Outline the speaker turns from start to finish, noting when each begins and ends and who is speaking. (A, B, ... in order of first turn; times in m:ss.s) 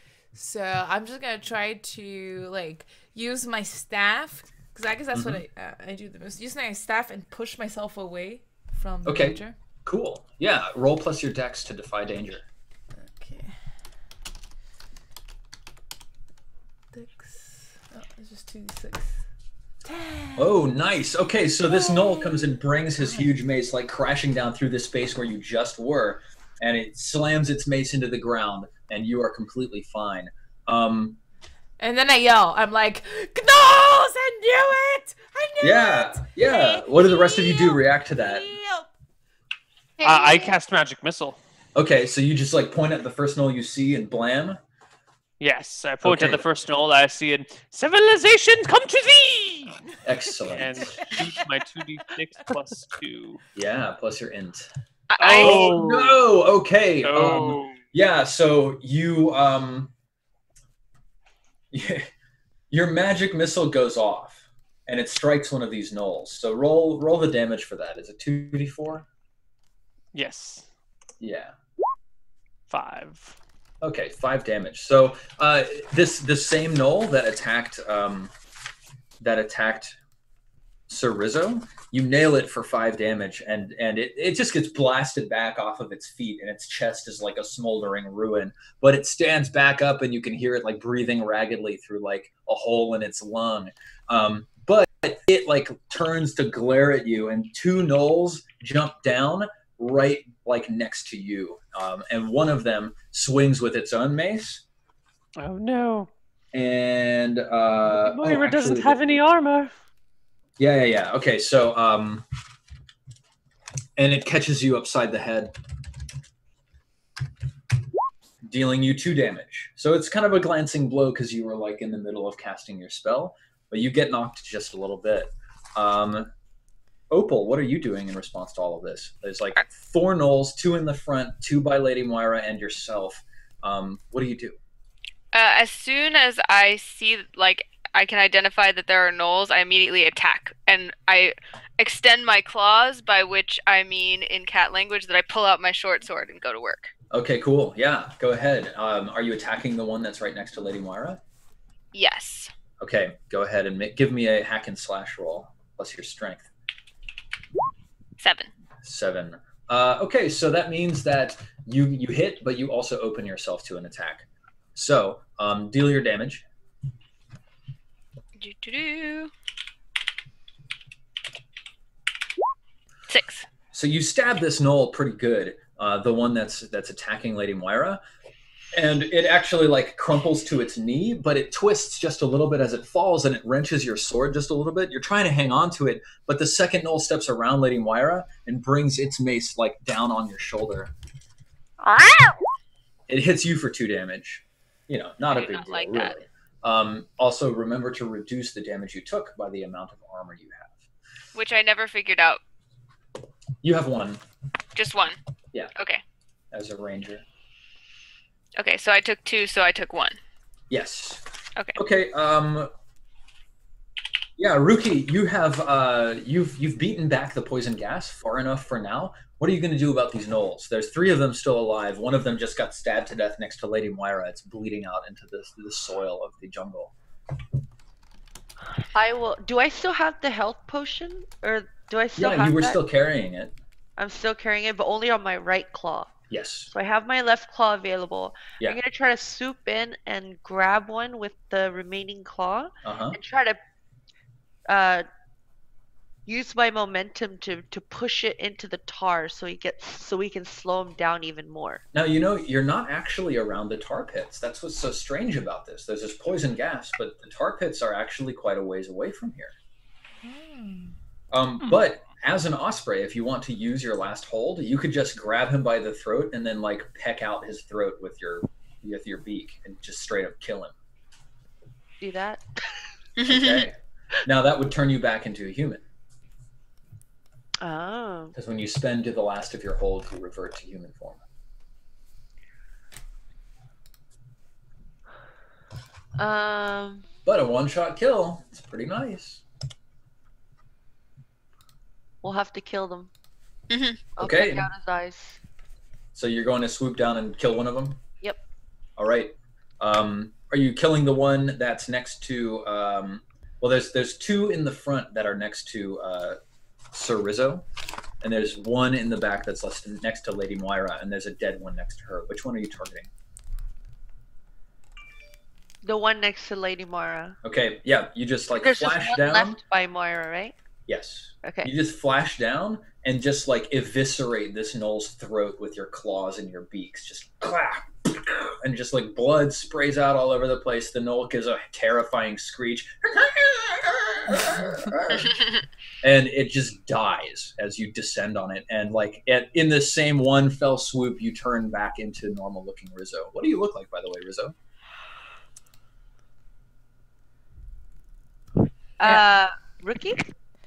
0:00.3-0:09.5 A
0:05.1-0:05.4 B
0:09.0-0:12.4 B
0:13.0-0:13.6 A
0:16.9-0:19.2 A
0:19.8-0:20.7 A
0:20.4-0:31.2 B
0:21.7-0:23.3 A
0:31.8-0:38.9 A
0:35.6-0:38.5 B
0:40.0-0:41.4 C
0:40.0-0:40.5 A
0:41.8-0:44.6 B
0:45.4-0:53.4 C
0:46.0-0:46.4 B
0:50.0-0:51.0 B
0:51.0-0:51.3 A
0:53.6-0:54.7 B
0:55.1-0:55.8 D
0:55.2-0:56.2 C
0:55.2-0:59.9 B
0:57.0-0:57.8 C
1:01.7-1:02.1 B
1:02.7-1:09.1 B
1:10.1-1:10.7 C
1:11.2-1:11.5 B
1:12.7-1:13.4 C
1:13.8-1:18.3 B
1:19.2-1:20.0 B
1:20.9-1:44.6 B
1:45.4-1:46.1 C
1:46.5-1:49.2 B
1:47.9-1:49.7 C
1:50.6-1:52.2 B
1:54.0-1:55.5 B
1:58.4-2:06.3 B
2:07.1-2:14.6 B
2:15.3-2:26.9 D
2:27.1-2:31.2 B
2:31.9-2:32.5 D
2:32.8-2:36.5 B
2:38.2-2:38.5 D
2:38.8-2:46.4 B
2:48.4-2:49.3 D
2:53.1-2:53.5 D
2:53.7-2:58.0 B
2:58.7-3:10.9 B
3:11.8-3:12.3 D
3:13.1-3:20.8 B
3:15.3-3:16.2 D
3:21.3-3:22.4 D
3:23.6-3:24.2 B
3:24.8-3:25.2 D
3:25.8-3:26.0 D
3:26.5-3:27.2 B
3:28.6-3:30.2 D
3:30.7-3:31.2 B
3:31.8-3:32.7 B
3:34.4-3:46.9 B
3:48.9-3:52.8 E
3:52.2-3:53.6 B
3:54.0-3:56.2 E
3:56.3-3:56.7 B
3:56.7-4:03.6 E
4:02.8-4:03.2 B
4:04.7-4:05.1 E
4:06.3-4:11.8 E
4:11.9-4:19.6 B
4:20.2-4:21.0 A
4:21.3-4:30.7 B
4:32.0-4:32.4 E
4:33.2-4:33.7 D
4:33.3-4:35.8 B
4:37.6-4:38.4 E
4:38.4-4:41.2 B
4:46.2-4:47.1 E
4:47.3-4:49.4 B
4:52.2-4:53.1 E
4:53.7-4:54.0 D
4:54.2-4:55.4 E
4:54.2-4:54.7 B
4:56.2-4:58.0 B
4:59.0-5:06.4 B
5:06.9-5:07.7 B
5:08.2-5:13.1 B
5:15.8-5:17.4 E
5:17.4-5:19.6 B
5:18.6-5:20.6 E
5:20.9-5:35.5 B
5:21.4-5:21.7 E
5:36.0-5:44.6 B
5:49.0-5:50.2 E